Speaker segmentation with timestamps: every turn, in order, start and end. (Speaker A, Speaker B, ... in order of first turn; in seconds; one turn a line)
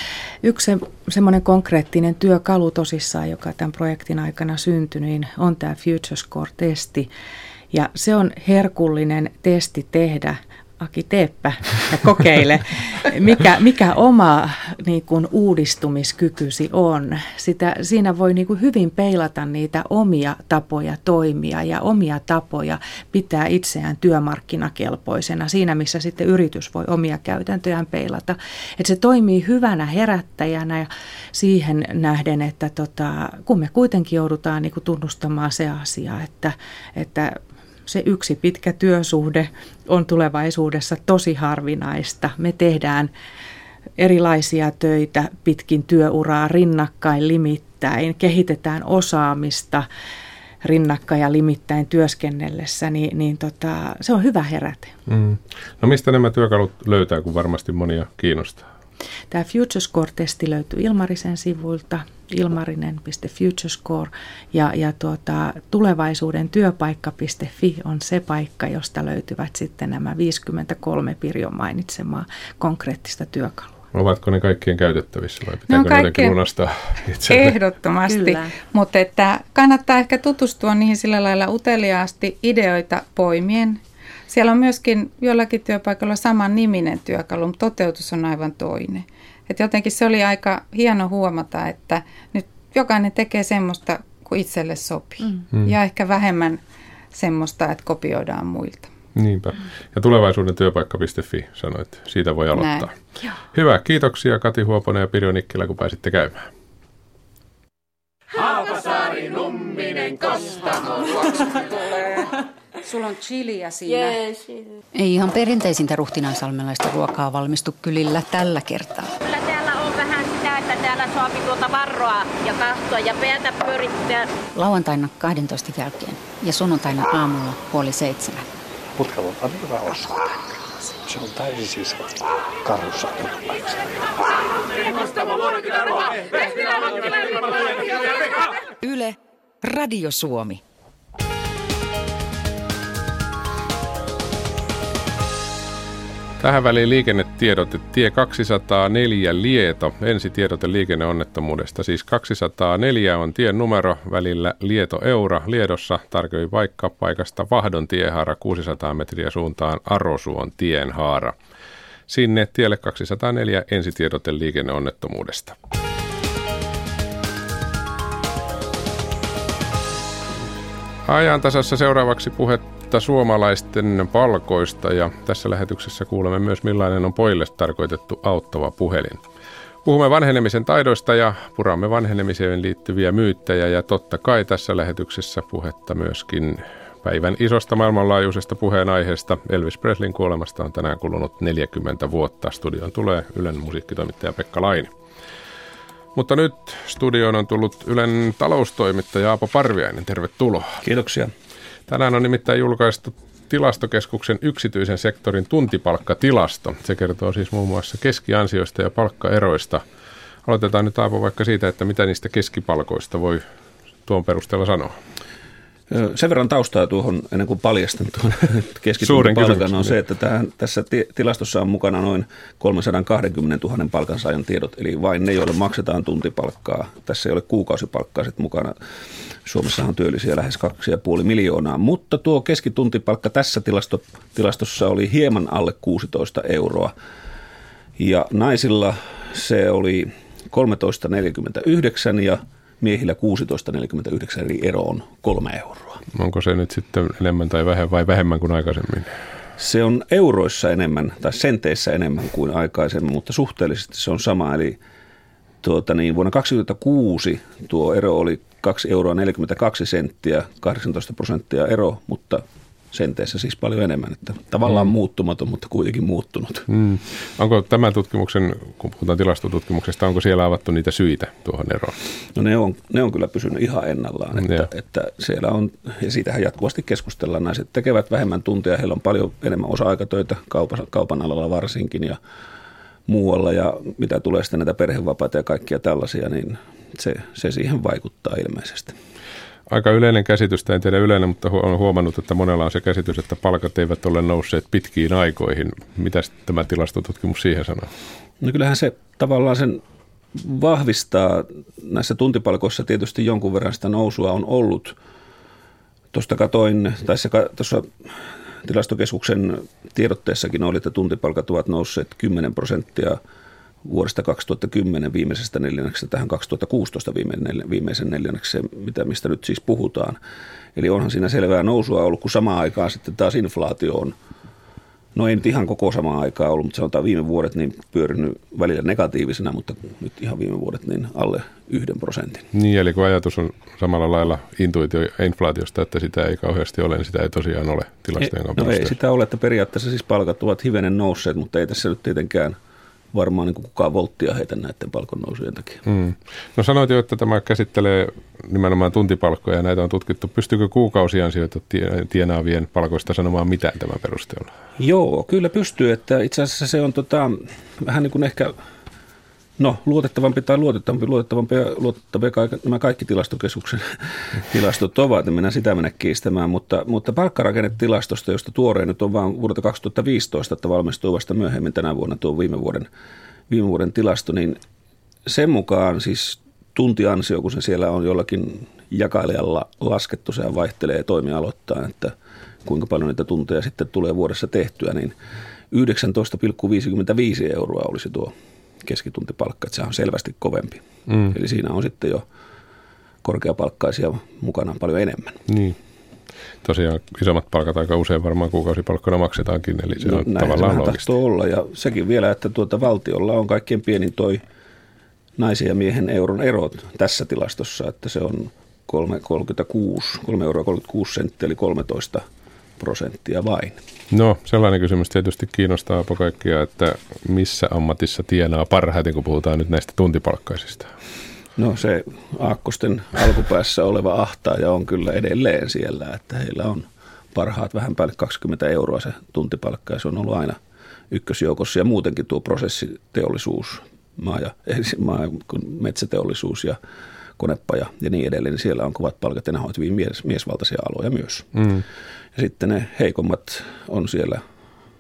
Speaker A: 0.4-7.1
Speaker A: 7.7-43.1
Speaker A: 44.0-49.9
Speaker A: 50.6-55.0
Speaker B: 55.1-58.7
Speaker A: 59.3-73.8
Speaker B: 73.9-77.5
Speaker C: 75.7-76.4
Speaker C: 77.3-96.6
Speaker A: 78.1-78.5
Speaker C: 97.1-98.9
Speaker B: 99.2-103.0
Speaker C: 102.5-102.9
Speaker B: 103.5-106.5
Speaker D: 113.3-113.6
Speaker D: 114.9-119.1
Speaker E: 119.2-124.3
Speaker D: 124.5-128.5
Speaker F: 129.0-130.2
Speaker F: 131.1-133.9
Speaker D: 138.8-140.6
Speaker B: 146.4-161.4
Speaker B: 162.1-165.6
Speaker B: 171.1-179.2
Speaker B: 179.8-194.9
Speaker B: 196.2-200.8
Speaker G: 200.8-201.3
Speaker B: 201.9-209.8
Speaker B: 210.4-213.5
Speaker B: 214.1-215.0
Speaker G: 215.9-228.8
Speaker B: 219.0-219.9
Speaker G: 229.4-236.9
Speaker G: 238.0-246.0
Speaker B: 246.1-249.1
Speaker G: 249.6-254.8
Speaker G: 255.6-266.7
Speaker B: 266.7-272.0
Speaker G: 272.4-282.2
Speaker B: 274.4-274.7
Speaker G: 283.1-289.0
Speaker B: 289.7-297.9
Speaker G: 298.4-299.8
Speaker G: 300.4-305.0
Speaker G: 306.1-308.0
Speaker G: 308.6-313.2
Speaker G: 313.9-320.2
Speaker G: 320.8-324.2
Speaker G: 325.1-332.5
Speaker B: 332.5-338.9
Speaker G: 338.2-342.6
Speaker G: 343.1-345.8
Speaker B: 345.9-354.5
Speaker G: 354.8-358.6
Speaker G: 359.6-372.9
Speaker G: 373.5-374.6
Speaker G: 375.3-382.1
Speaker G: 382.6-385.1
Speaker G: 385.7-392.3
Speaker B: 391.1-391.4
Speaker G: 393.2-395.4
Speaker B: 395.5-395.8
Speaker B: 396.6-401.1
Speaker G: 400.0-404.4
Speaker G: 405.4-412.2
Speaker G: 412.8-413.8
Speaker B: 414.1-420.9
Speaker G: 421.6-430.6
Speaker G: 431.1-436.8
Speaker G: 437.4-441.5
Speaker B: 441.6-441.8
Speaker G: 442.4-444.4